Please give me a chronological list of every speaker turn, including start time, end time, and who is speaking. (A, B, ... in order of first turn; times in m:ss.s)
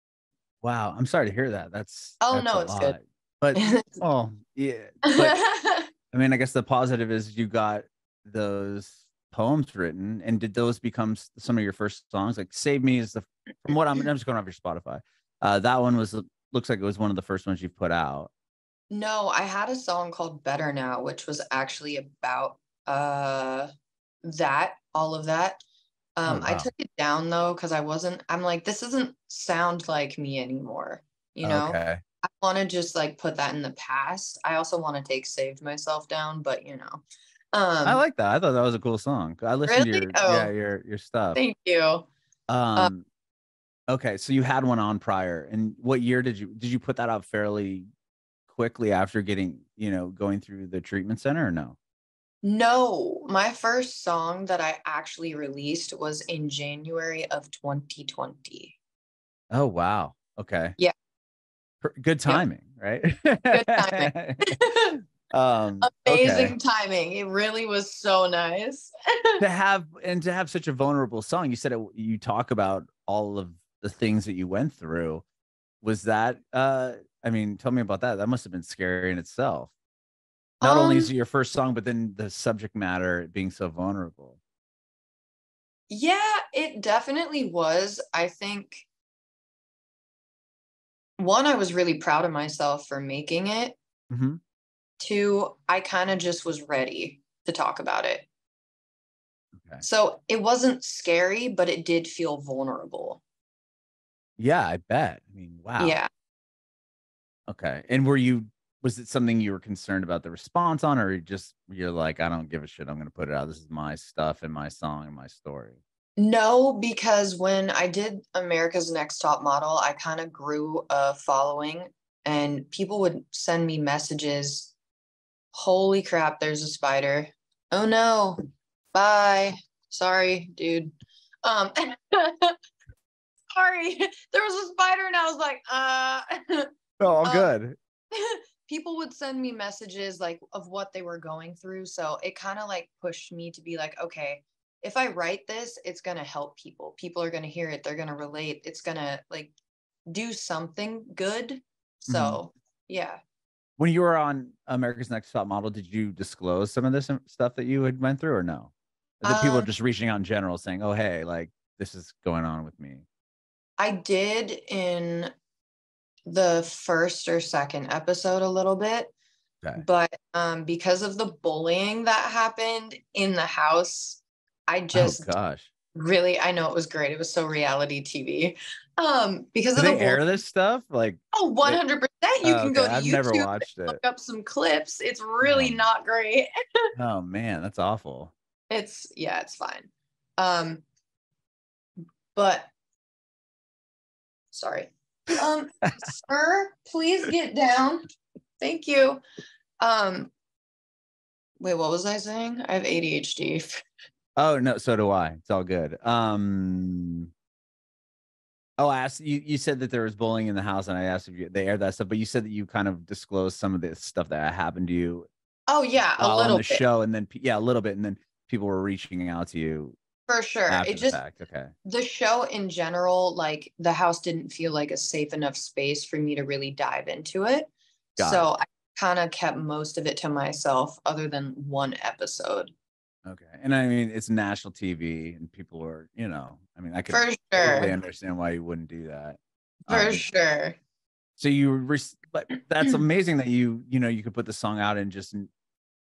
0:00.6-0:05.4 A
0:02.2-0:03.0 B
0:03.5-0:04.0 B
0:05.0-0:05.9 B
0:06.1-0:18.3 A
0:18.9-0:23.7 B
0:24.2-0:25.6 B
0:26.2-0:38.0 B
0:26.3-0:26.7 A
0:31.4-0:32.0 A
0:37.8-0:41.4 A
0:39.7-0:40.5 B
0:41.3-0:42.1 B
0:42.5-0:43.0 A
0:43.9-0:47.8 A
0:48.5-0:51.8 A
0:52.4-0:58.7 B
0:59.5-1:00.8 A
1:01.8-1:04.4 A
1:03.5-1:05.0 B
1:05.3-1:06.5 A
1:05.8-1:09.4 B
1:09.4-1:15.2 A
1:15.8-1:19.7 A
1:20.6-1:21.1 B
1:20.6-1:24.4 A
1:25.9-1:28.8 B
1:31.2-1:33.8 B
1:34.1-1:34.4 A
1:35.0-1:38.3 B
1:39.6-1:39.8 A
1:39.8-1:43.2 B
1:44.4-1:46.0 A
1:45.8-1:46.1 B
1:47.5-1:55.8 A
1:56.2-2:04.7 B
2:05.5-2:08.4 B
2:08.9-2:12.5 B
2:13.6-2:16.7 B
2:17.0-2:17.8 A
2:17.2-2:17.5 B
2:18.1-2:29.5 B
2:30.1-2:33.2 B
2:32.1-2:32.4 A
2:33.8-2:43.0 A
2:39.2-2:39.7 B
2:43.8-2:45.3 B
2:46.3-2:49.1 B
2:49.8-2:55.3 B
2:54.9-2:55.7 A
2:55.9-3:00.2 B
2:59.8-3:01.8 A
3:01.3-3:06.5 B
3:02.4-3:04.0 A
3:05.4-3:05.8 A
3:07.0-3:08.3 A
3:08.7-3:10.8 B
3:12.3-3:12.7 B
3:14.5-3:18.1 B
3:18.6-3:19.2 B
3:19.8-3:20.3 B
3:21.6-3:23.8 B
3:24.4-3:27.3 A
3:28.8-3:35.3 A
3:35.7-3:36.8 B
3:36.2-3:40.0 A
3:40.3-3:41.2 B
3:40.7-3:41.7 A
3:41.8-3:52.7 B
3:48.2-3:48.4 A
3:53.2-4:00.2 A
3:57.1-3:57.9 B
3:59.9-4:00.8 B
4:01.4-4:05.5 A